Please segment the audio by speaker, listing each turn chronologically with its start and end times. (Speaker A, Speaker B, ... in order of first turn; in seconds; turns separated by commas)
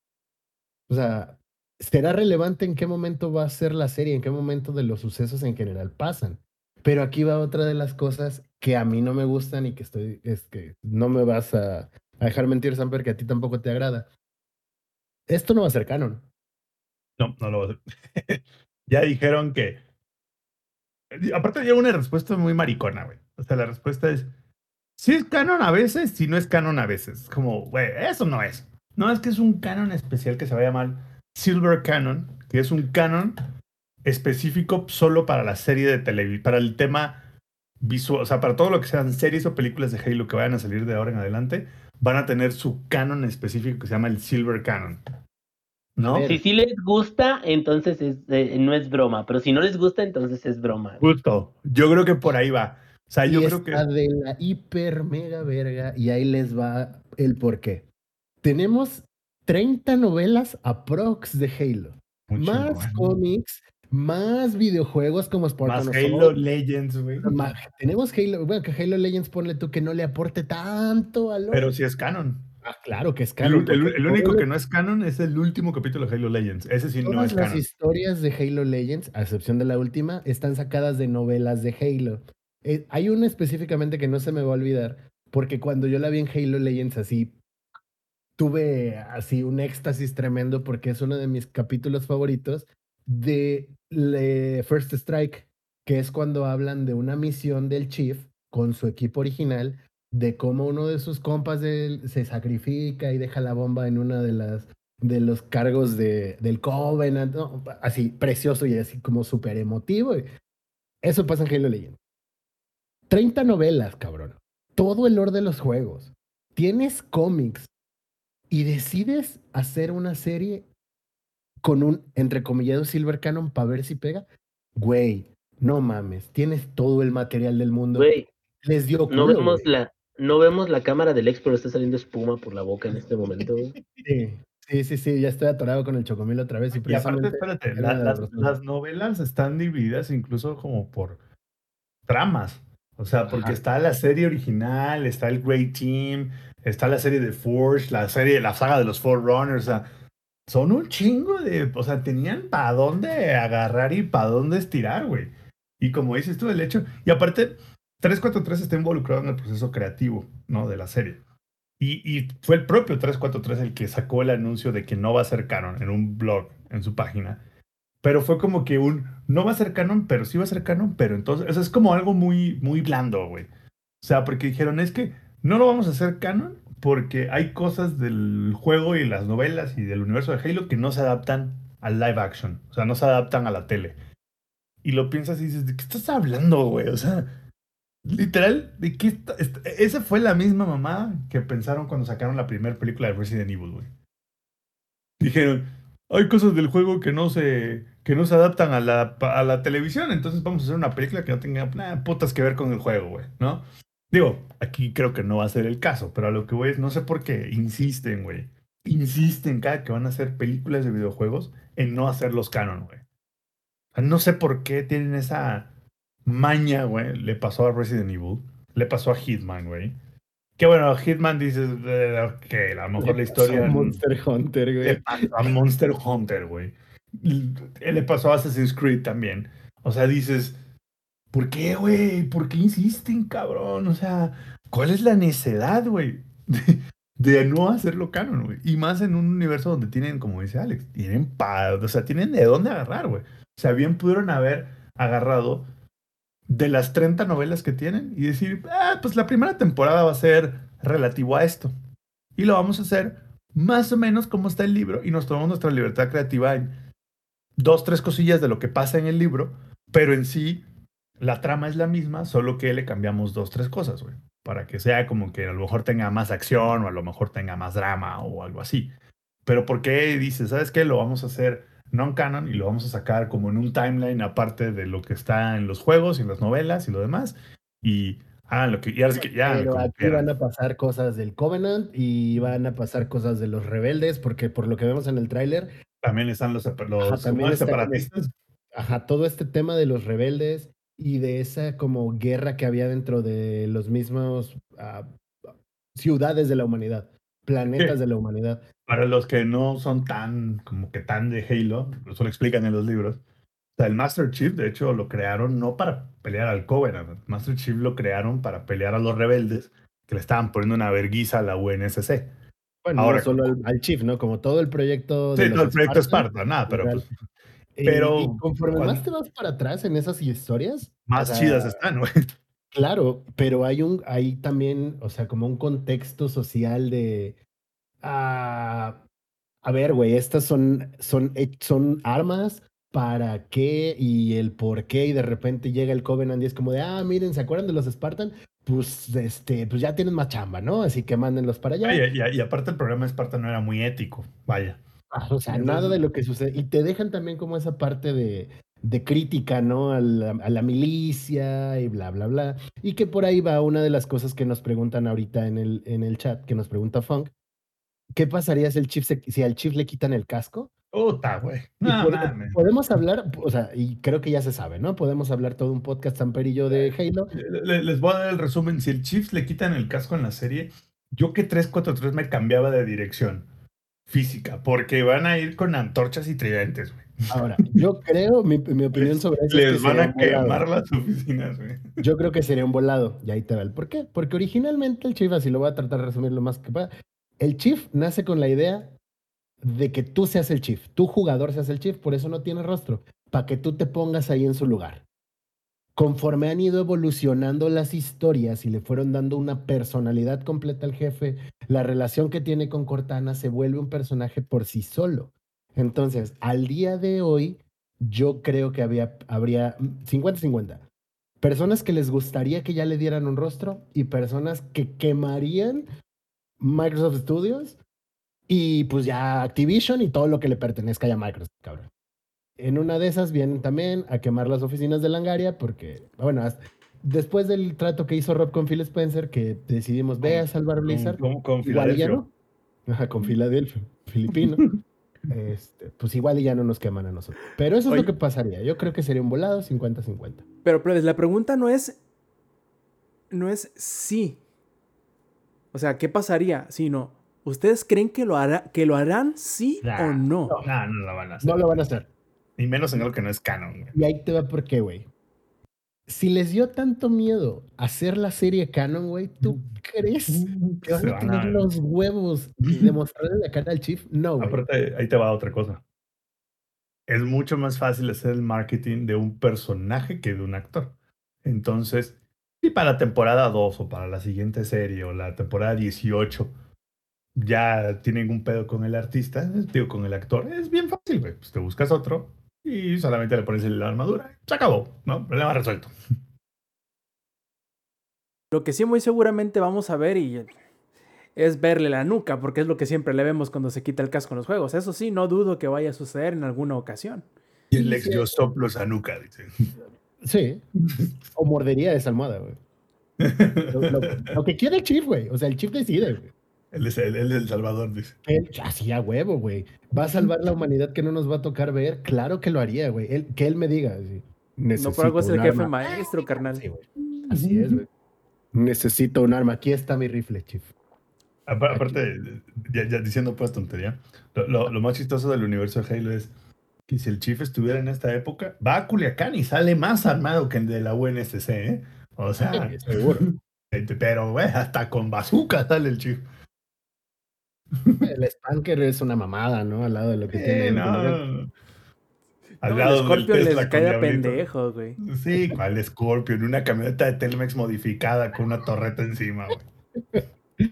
Speaker A: 0.9-14.1, Speaker A: 15.3-16.3, Speaker B: 17.2-19.8, Speaker B: 21.1-24.3, Speaker B: 25.0-33.4, Speaker B: 34.0-37.3, Speaker B: 37.8-45.0, Speaker B: 46.0-46.3, Speaker A: 46.0-46.4, Speaker C: 46.3-51.0, Speaker B: 51.0-53.8, Speaker A: 53.2-57.9, Speaker A: 58.4-66.4, Speaker B: 62.3-63.1, Speaker B: 65.6-67.3, Speaker A: 67.2-71.7, Speaker B: 71.5-72.5, Speaker A: 72.6-74.5, Speaker B: 73.4-77.7, Speaker A: 77.0-87.4, Speaker A: 88.4-110.3, Speaker A: 111.0-112.0, Speaker A: 113.1-117.7, Speaker A: 118.5-120.7, Speaker A: 121.6-128.1, Speaker C: 128.0-128.3, Speaker A: 128.6-129.7, Speaker C: 129.1-133.8, Speaker B: 133.3-134.0, Speaker A: 134.1-138.6, Speaker B: 136.7-141.2, Speaker B: 142.1-149.9, Speaker A: 143.3-143.6, Speaker B: 150.5-161.2, Speaker B: 161.8-167.4, Speaker B: 168.0-173.5, Speaker B: 174.0-184.0, Speaker B: 184.8-187.3, Speaker B: 188.1-193.9, Speaker B: 195.2-213.0, Speaker B: 213.9-215.7, Speaker B: 216.2-219.9, Speaker B: 220.6-224.0, Speaker A: 223.0-225.5, Speaker B: 224.8-230.6, Speaker B: 231.3-245.7, Speaker B: 246.5-251.7, Speaker B: 252.4-256.7, Speaker B: 257.6-260.6, Speaker B: 261.2-268.9, Speaker B: 269.5-280.3, Speaker A: 279.4-285.7, Speaker B: 286.0-288.3, Speaker A: 287.0-288.1, Speaker A: 288.7-295.1, Speaker A: 295.9-298.6, Speaker B: 298.9-303.2, Speaker B: 303.8-312.3, Speaker A: 312.9-317.1, Speaker B: 312.9-313.6, Speaker B: 315.4-317.1, Speaker A: 317.8-321.8, Speaker B: 317.8-319.0, Speaker B: 321.1-322.1, Speaker A: 322.7-327.4, Speaker A: 328.0-329.0, Speaker A: 329.6-342.0, Speaker B: 341.8-344.8, Speaker A: 345.1-357.3, Speaker B: 345.5-346.0, Speaker A: 358.1-360.7, Speaker B: 360.9-362.6, Speaker A: 361.8-367.3, Speaker B: 366.7-373.5, Speaker B: 374.1-377.8, Speaker A: 377.3-380.6, Speaker B: 378.9-382.0, Speaker A: 382.0-389.0, Speaker A: 389.6-395.1, Speaker A: 396.0-410.9, Speaker A: 411.4-415.9, Speaker A: 416.6-417.8, Speaker A: 418.5-421.9, Speaker A: 422.6-432.3, Speaker B: 430.2-432.2, Speaker A: 432.9-434.7, Speaker B: 434.3-434.8, Speaker A: 435.3-440.4, Speaker D: 440.6-442.0, Speaker D: 443.3-444.4, Speaker D: 445.7-450.6, Speaker A: 449.8-450.7, Speaker B: 450.6-451.6, Speaker A: 451.4-452.1, Speaker B: 452.6-454.0, Speaker A: 453.9-455.1, Speaker A: 456.1-464.6, Speaker B: 459.4-459.7, Speaker B: 460.3-461.7, Speaker B: 462.7-462.9, Speaker B: 464.4-465.8, Speaker B: 467.1-476.5, Speaker B: 477.4-485.9, Speaker D: 488.5-490.6, Speaker D: 491.4-497.3, Speaker B: 497.7-499.5, Speaker A: 497.8-498.3, Speaker A: 500.2-500.6, Speaker B: 500.8-501.1, Speaker A: 501.3-502.6, Speaker B: 503.2-504.3, Speaker A: 503.7-506.3, Speaker B: 506.7-508.2, Speaker A: 508.3-517.9, Speaker B: 509.9-510.3, Speaker D: 514.8-516.6, Speaker B: 517.1-517.8, Speaker A: 518.5-520.7, Speaker B: 521.5-526.3, Speaker A: 521.7-522.0, Speaker B: 526.9-536.2, Speaker A: 532.5-533.3, Speaker B: 537.8-538.1, Speaker A: 538.0-541.2, Speaker B: 540.3-541.5, Speaker D: 542.6-545.0, Speaker B: 542.6-544.4, Speaker B: 545.0-549.6